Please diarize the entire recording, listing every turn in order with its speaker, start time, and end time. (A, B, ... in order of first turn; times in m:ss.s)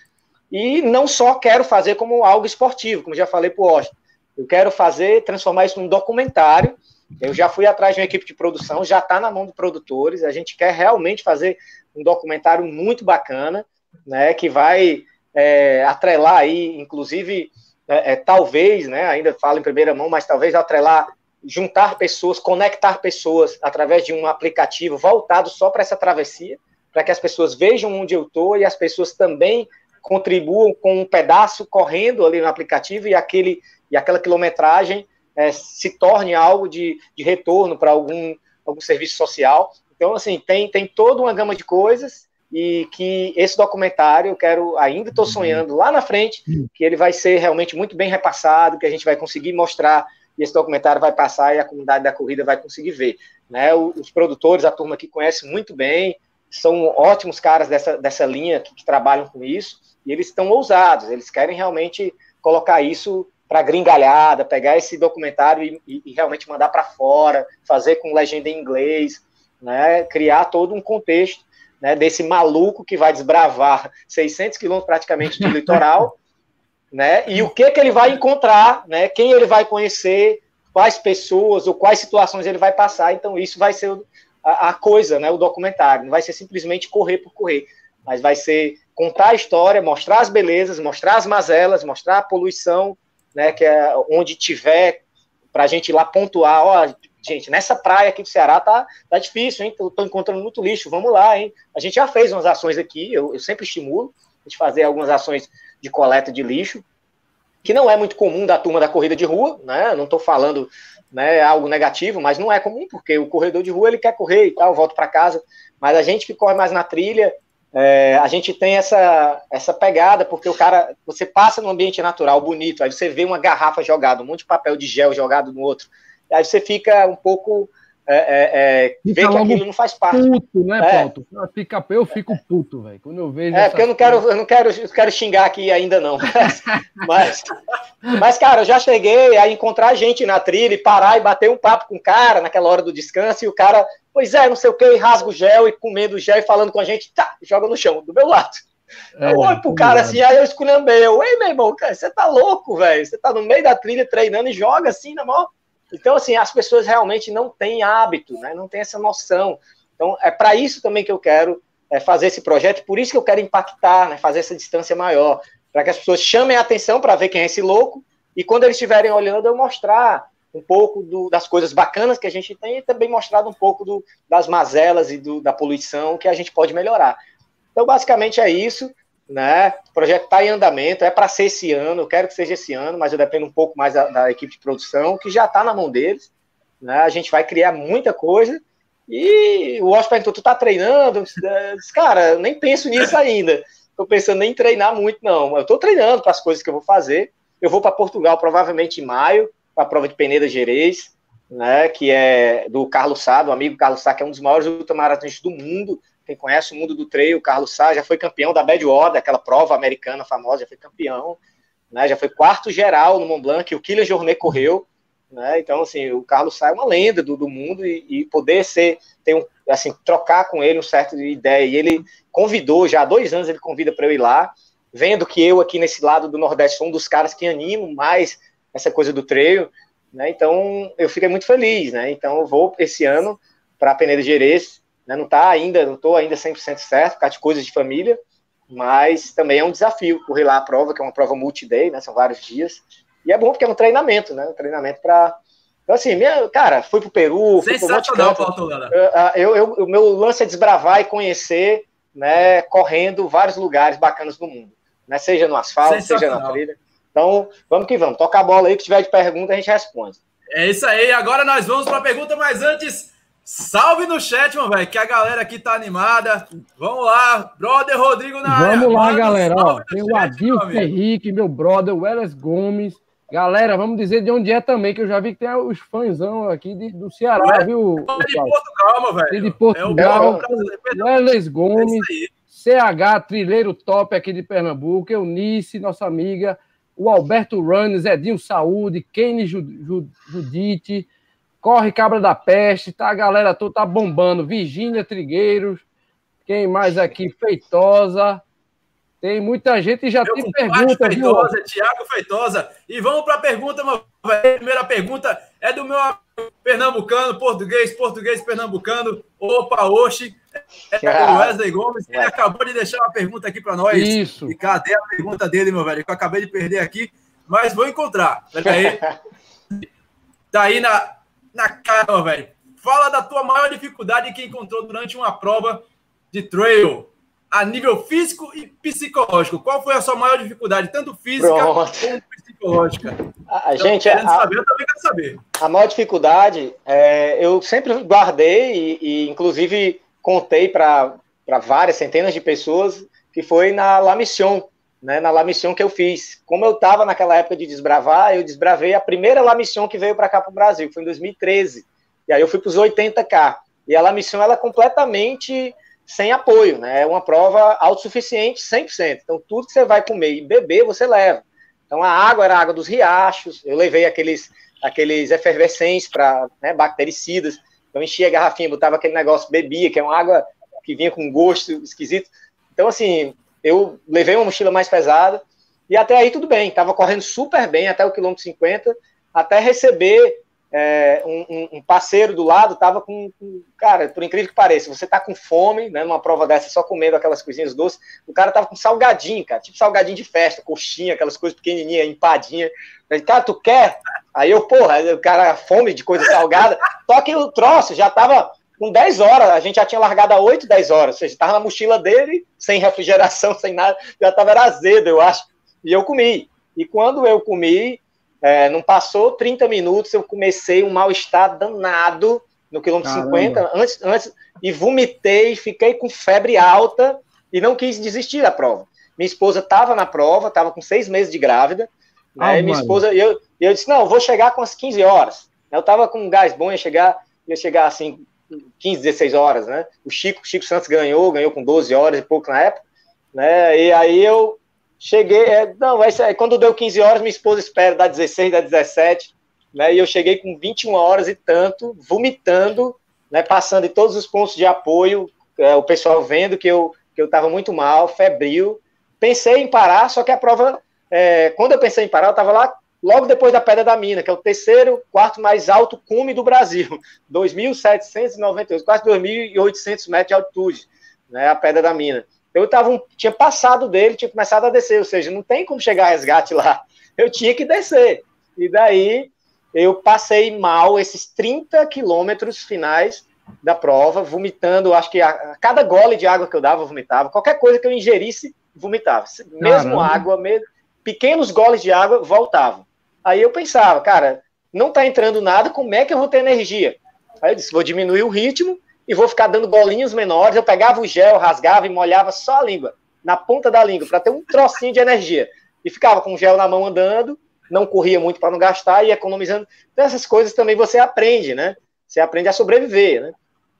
0:00.5-1:16.2 A
1:15.4-1:15.7 B
1:16.9-1:35.0 A
1:35.5-1:46.8 A
1:47.6-2:11.1 A
2:09.0-2:14.2 B
2:13.5-2:17.5 A
2:18.1-2:28.6 A
2:29.2-2:30.2 B
2:29.2-2:57.2 A
2:57.7-3:06.3 A
3:06.8-3:31.4 A
3:31.9-3:58.2 A
3:58.7-4:05.4 A
4:05.9-4:20.2 A
4:07.6-4:08.9 C
4:15.8-4:16.6 C
4:20.5-4:30.9 C
4:28.4-4:38.6 B
4:37.4-4:41.2 C
4:39.3-4:51.1 B
4:39.9-4:40.5 A
4:41.7-4:42.3 C
4:51.6-4:55.8 B
4:56.5-4:58.4 B
4:59.2-5:01.5 B
5:00.2-5:19.0 C
5:11.0-5:11.6 A
5:13.9-5:14.5 B
5:18.6-5:19.1 A
5:20.5-5:33.2 C
5:31.4-5:32.2 A
5:33.5-5:34.5 A
5:33.8-5:35.4 C
5:35.6-7:08.2 A
6:53.0-6:53.6 B
7:02.4-7:03.0 B
7:08.8-7:12.8 A
7:13.3-8:23.3 A
7:59.6-8:00.2 B